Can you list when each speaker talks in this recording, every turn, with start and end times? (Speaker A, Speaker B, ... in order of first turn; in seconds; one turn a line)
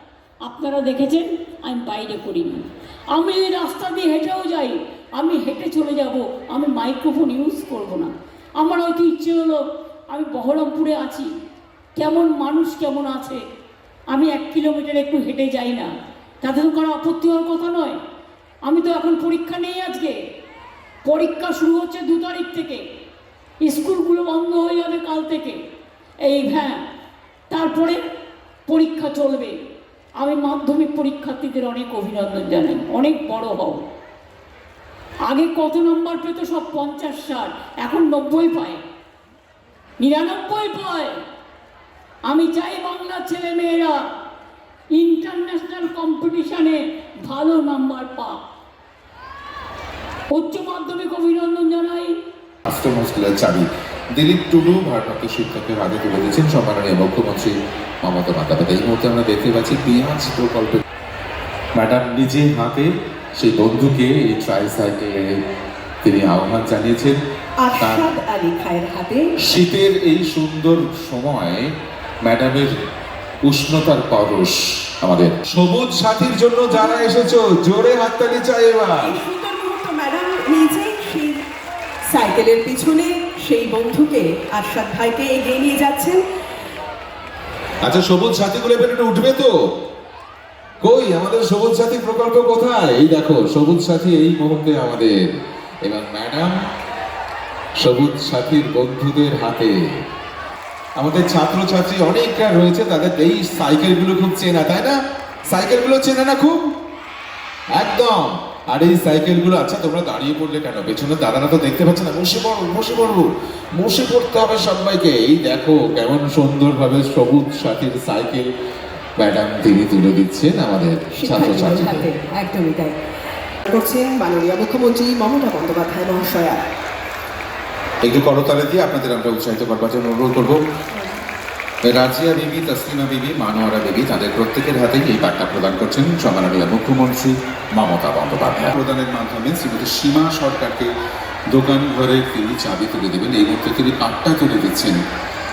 Speaker A: 0.4-11.3
Speaker A: 11.9-13.4
Speaker A: 14.1-15.9
Speaker A: 16.4-18.0
Speaker A: 18.6-20.2
Speaker A: 21.0-22.8
Speaker A: 23.6-25.6
Speaker A: 26.2-26.8
Speaker A: 27.5-28.0
Speaker A: 28.7-29.5
Speaker A: 30.2-33.8
Speaker A: 35.2-38.8
Speaker A: 40.0-41.1
Speaker A: 42.3-44.0
Speaker A: 44.9-48.4
Speaker A: 50.3-52.1
Speaker B: 52.6-60.8
Speaker B: 61.7-65.2
Speaker B: 66.0-67.2
Speaker C: 67.6-69.3
Speaker B: 67.8-68.1
Speaker B: 69.4-71.7
Speaker B: 72.2-72.7
Speaker B: 73.4-79.2
Speaker C: 76.7-77.3
Speaker C: 79.0-81.4
Speaker C: 82.1-86.2
Speaker B: 87.8-89.5
Speaker B: 90.8-95.1
Speaker B: 95.8-96.5
Speaker B: 97.8-99.7
Speaker B: 101.0-105.0
Speaker B: 105.5-106.6
Speaker B: 107.7-118.5
Speaker B: 119.2-122.1
Speaker C: 121.1-122.9
Speaker C: 123.7-126.6
Speaker B: 128.0-130.6
Speaker C: 130.9-131.2
Speaker B: 131.8-140.9
Speaker B: 141.5-145.0